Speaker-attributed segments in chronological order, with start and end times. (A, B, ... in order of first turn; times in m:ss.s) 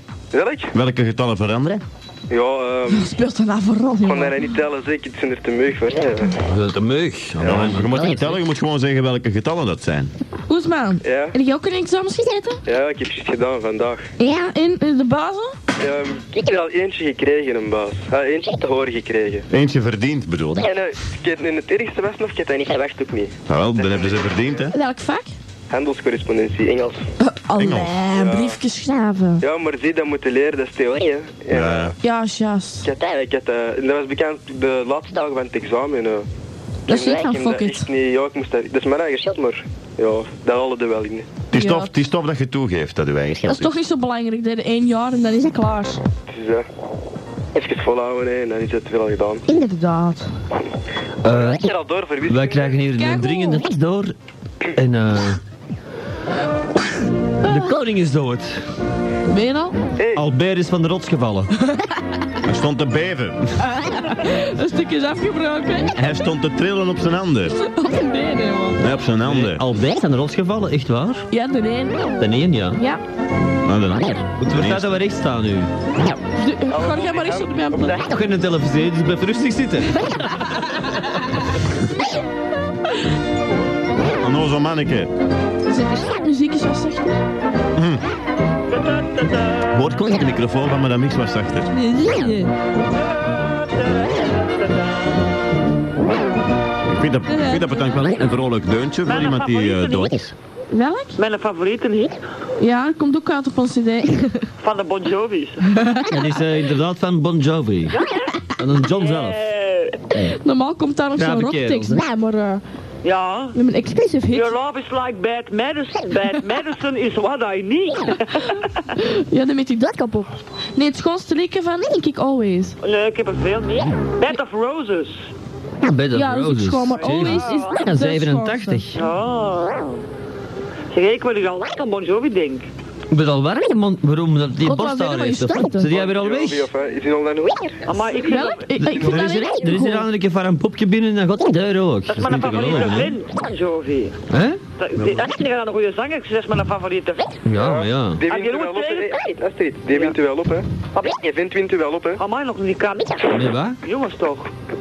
0:00.3-0:00.7 A
0:00.7-0:01.8 B
0:02.3-0:03.1 A
0:02.9-0:04.4 C
0:04.1-0:06.3 A
0:06.4-0:08.4 D
0:07.4-0:10.1 B
0:10.5-0:12.6 C
0:11.0-0:11.4 A
0:12.7-0:14.0 A
0:14.2-0:15.5 C
0:15.8-0:19.4 A
0:19.5-0:20.6 B
0:20.6-0:23.3 A
0:23.5-0:24.8 B
0:23.9-0:24.3 A
0:24.6-0:25.3 C
0:25.7-0:27.0 A
0:27.2-0:29.4 C
0:27.6-0:28.1 B
0:28.1-0:28.6 A
0:29.4-0:31.9 A
0:31.5-0:32.0 B
0:32.0-0:32.9 C
0:32.8-0:36.3 A
0:36.9-0:41.4 A
0:36.9-0:37.8 C
0:41.5-0:43.8 B
0:41.5-0:42.0 C
0:43.4-0:46.0 C
0:46.3-0:46.7 A
0:47.5-0:49.4 A
0:49.5-0:50.3 C
0:51.2-0:51.7 D
0:51.3-0:52.9 A
0:52.2-0:54.2 D
0:52.9-0:53.6 C
0:54.8-0:55.4 D
0:57.4-0:58.6 D
0:59.3-0:59.8 C
1:00.0-1:00.3 A
1:00.2-1:01.5 D
1:01.6-1:01.9 C
1:02.4-1:03.6 B
1:03.7-1:06.3 C
1:05.9-1:07.6 B
1:07.5-1:08.8 C
1:08.8-1:09.6 B
1:09.2-1:11.3 D
1:11.3-1:13.0 C
1:12.2-1:12.8 D
1:13.6-1:15.0 B
1:14.4-1:15.7 D
1:16.2-1:18.0 C
1:16.7-1:18.0 A
1:18.0-1:20.5 D
1:24.2-1:25.1 B
1:25.7-1:27.2 C
1:27.8-1:28.0 B
1:28.7-1:29.8 E
1:29.7-1:31.7 B
1:31.7-1:32.5 C
1:33.8-1:34.5 E
1:36.8-1:40.3 B
1:37.3-1:38.1 C
1:39.1-1:40.2 E
1:40.7-1:41.2 C
1:41.2-1:42.2 E
1:42.6-1:44.5 C
1:44.6-1:45.7 E
1:45.7-1:46.0 C
1:46.0-1:48.0 D
1:47.9-1:48.3 E
1:48.6-1:49.4 D
1:48.9-1:50.0 E
1:50.1-1:52.6 C
1:51.2-1:52.0 D
1:53.0-1:53.6 E
1:53.5-1:54.5 C
1:54.3-1:58.6 E
1:59.0-2:02.8 C
2:02.8-2:05.2 E
2:05.8-2:09.0 D
2:06.1-2:08.9 C
2:07.0-2:07.7 E
2:09.0-2:10.0 E
2:10.9-2:12.7 E
2:13.1-2:16.7 D
2:14.6-2:15.9 C
2:15.9-2:17.8 A
2:17.9-2:19.1 E
2:18.3-2:20.1 C
2:18.8-2:23.1 D
2:22.1-2:24.2 E
2:24.3-2:24.6 D
2:24.8-2:27.4 E
2:27.4-2:28.2 D
2:27.6-2:30.7 A
2:28.3-2:29.3 E
2:29.9-2:30.2 E
2:31.2-2:32.2 A
2:32.2-2:34.5 E
2:33.3-2:33.8 D